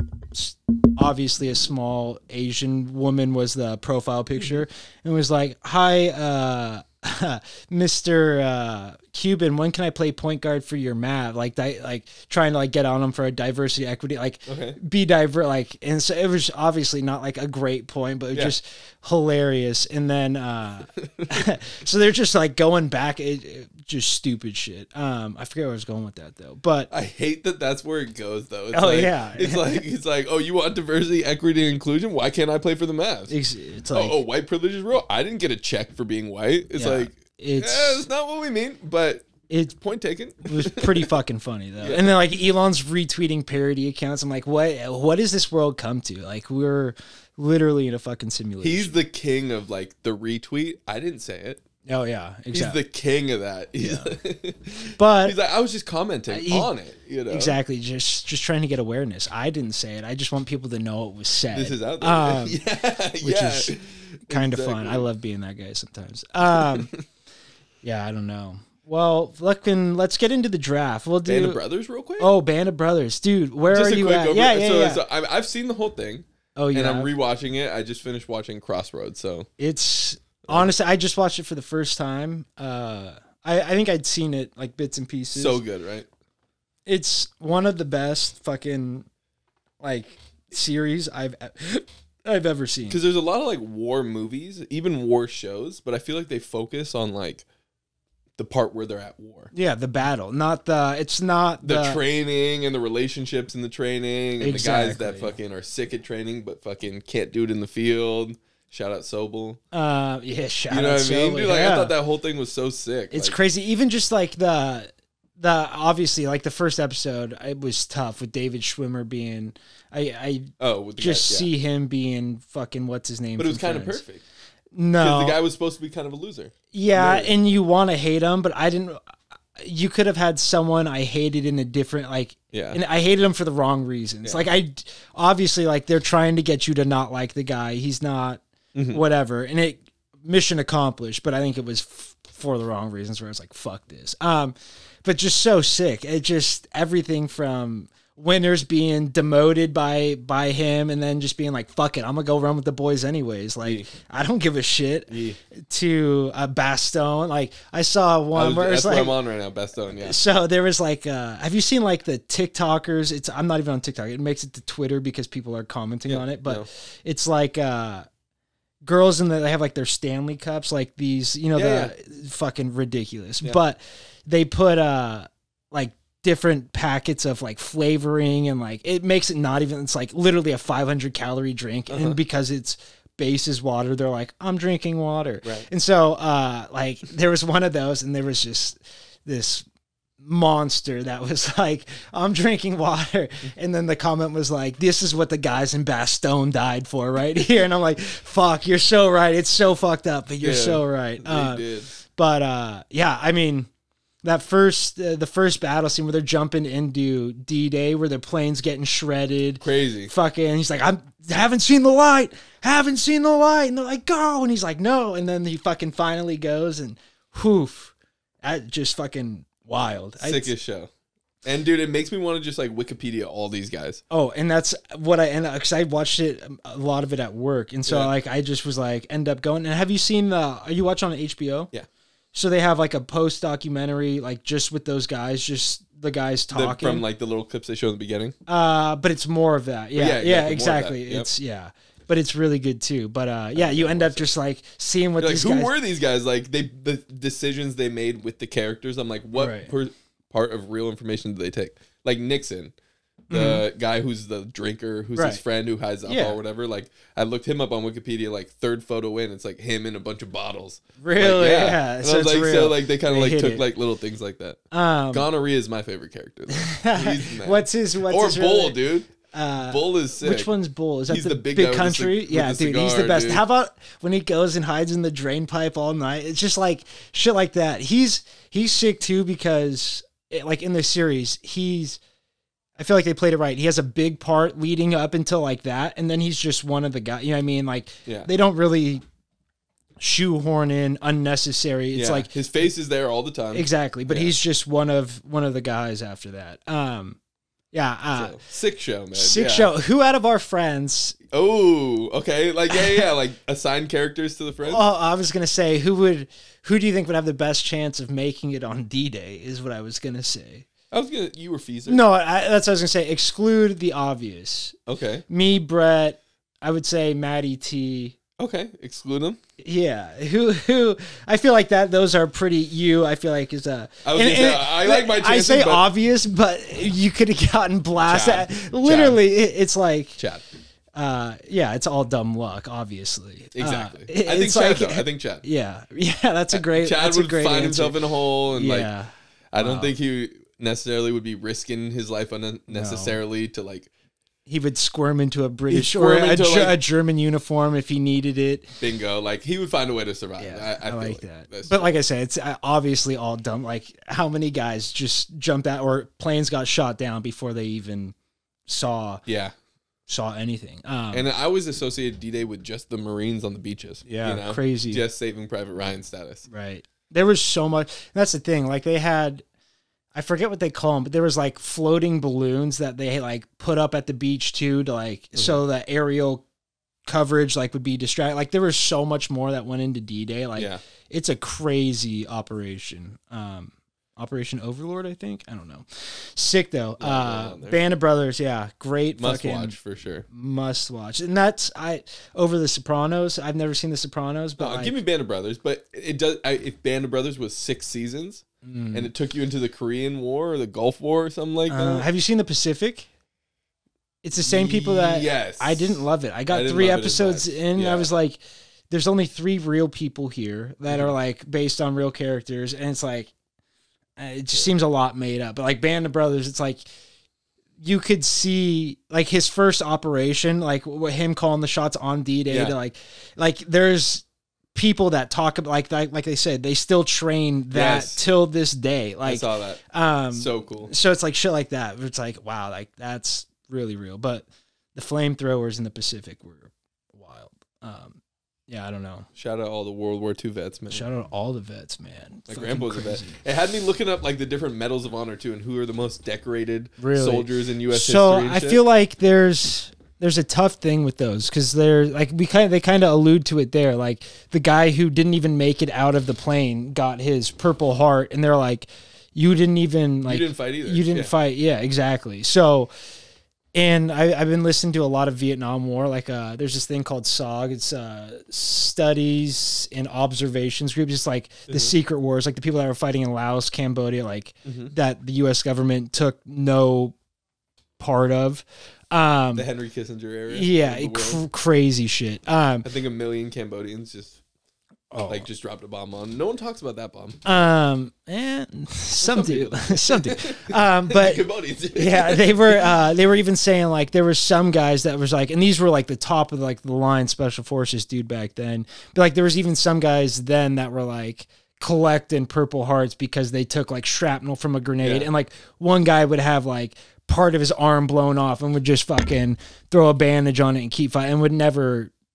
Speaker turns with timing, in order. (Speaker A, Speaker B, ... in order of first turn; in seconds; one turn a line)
Speaker A: 0.3-26.9
Speaker B: 14.5-14.8
Speaker B: 21.1-21.4
Speaker B: 26.9-33.3
Speaker A: 28.7-29.8
Speaker A: 33.3-34.2
Speaker B: 33.9-41.1
Speaker A: 36.8-38.1
Speaker A: 39.5-39.8
Speaker A: 40.5-49.0
Speaker B: 41.8-42.1
Speaker B: 48.6-51.6
Speaker A: 51.9-52.8
Speaker B: 52.5-57.6
Speaker A: 53.8-54.1
Speaker A: 55.0-55.4
Speaker A: 56.3-56.7
Speaker A: 57.3-62.6
Speaker B: 61.5-65.1
Speaker A: 63.2-63.8
Speaker A: 64.3-66.9
Speaker B: 66.5-67.0
Speaker A: 67.8-71.6
Speaker B: 71.2-72.3
Speaker A: 72.2-75.0
Speaker B: 73.7-79.5
Speaker A: 76.6-77.1
Speaker A: 79.6-85.6
Speaker B: 85.3-86.1
Speaker A: 86.9-89.1
Speaker A: 89.8-93.0
Speaker B: 92.9-97.5
Speaker B: 98.4-99.5
Speaker A: 99.5-102.0
Speaker B: 101.6-109.6
Speaker A: 104.4-105.3
Speaker A: 109.7-111.9
Speaker B: 110.7-113.4
Speaker A: 113.1-124.0
Speaker B: 120.6-121.5
Speaker B: 123.4-124.2
Speaker A: 124.8-125.4
Speaker B: 125.0-127.3
Speaker A: 126.7-129.0
Speaker A: 129.6-159.2
Speaker B: 132.5-132.8
Speaker B: 134.2-134.5
Speaker B: 138.8-139.0
Speaker B: 153.6-153.9
Speaker B: 155.1-155.4
Speaker B: 158.3-160.2
Speaker A: 160.0-168.1
Speaker B: 166.1-166.7
Speaker A: 168.8-189.7
Speaker B: 171.6-171.9
Speaker B: 181.9-182.2
Speaker A: 190.2-203.7
Speaker B: 200.4-201.9
Speaker A: 204.2-220.5
Speaker B: 209.6-210.1
Speaker B: 220.2-220.9
Speaker B: 221.4-224.0
Speaker A: 224.1-231.7
Speaker B: 227.9-228.1
Speaker A: 232.3-237.1
Speaker B: 236.5-238.4
Speaker A: 238.5-245.7
Speaker B: 239.9-241.3
Speaker B: 243.6-244.3
Speaker B: 245.2-252.7
Speaker A: 249.4-249.7
Speaker A: 253.3-253.6
Speaker B: 253.3-264.6
Speaker A: 255.2-255.4
Speaker A: 256.1-256.4
Speaker A: 261.0-263.6
Speaker A: 264.7-265.3
Speaker B: 265.1-269.1
Speaker A: 266.5-268.8
Speaker A: 269.3-282.0
Speaker B: 269.7-270.5
Speaker B: 271.1-273.4
Speaker A: 282.8-289.0
Speaker A: 290.0-292.3
Speaker B: 291.9-294.4
Speaker A: 293.5-297.2
Speaker A: 297.7-298.4
Speaker B: 298.1-299.7
Speaker A: 299.1-301.2
Speaker B: 301.3-304.8
Speaker A: 302.7-303.1
Speaker A: 304.6-310.7
Speaker B: 310.9-312.0
Speaker A: 311.9-314.8
Speaker B: 314.9-315.2
Speaker A: 315.3-318.2
Speaker B: 318.4-319.4
Speaker A: 319.6-330.2
Speaker B: 324.0-325.9
Speaker B: 328.0-329.2
Speaker B: 330.2-330.4
Speaker A: 330.9-338.0
Speaker B: 333.6-335.4
Speaker B: 336.5-338.9
Speaker A: 338.5-339.9
Speaker B: 339.5-343.9
Speaker A: 342.7-343.2
Speaker A: 344.5-348.7
Speaker B: 345.7-346.8
Speaker B: 348.8-351.9
Speaker A: 350.4-358.1
Speaker A: 358.7-359.2
Speaker B: 359.3-359.5
Speaker A: 360.1-361.3
Speaker B: 361.1-366.4
Speaker A: 364.1-365.0
Speaker A: 366.5-369.4
Speaker A: 370.1-376.4
Speaker B: 375.4-375.6
Speaker A: 377.1-389.8
Speaker B: 387.0-387.8
Speaker B: 389.2-390.3
Speaker A: 390.3-395.0
Speaker B: 394.6-402.1
Speaker A: 398.6-399.1
Speaker A: 401.7-403.1
Speaker A: 404.2-408.4
Speaker B: 404.4-408.1
Speaker A: 408.9-413.3
Speaker A: 414.2-416.8
Speaker A: 417.8-439.3
Speaker B: 422.5-422.8
Speaker B: 427.7-428.2
Speaker B: 429.2-429.8
Speaker B: 430.3-430.9
Speaker B: 439.4-441.1
Speaker A: 440.9-443.4
Speaker B: 442.5-448.8
Speaker A: 447.0-462.9
Speaker B: 460.3-461.3
Speaker A: 463.7-477.1
Speaker B: 471.7-471.9
Speaker B: 474.6-474.9
Speaker A: 478.0-479.7
Speaker B: 479.6-481.4
Speaker A: 480.5-482.9
Speaker B: 482.8-484.4
Speaker A: 485.1-485.5
Speaker B: 485.3-487.7
Speaker A: 487.4-512.1
Speaker B: 489.2-493.0
Speaker B: 505.0-505.3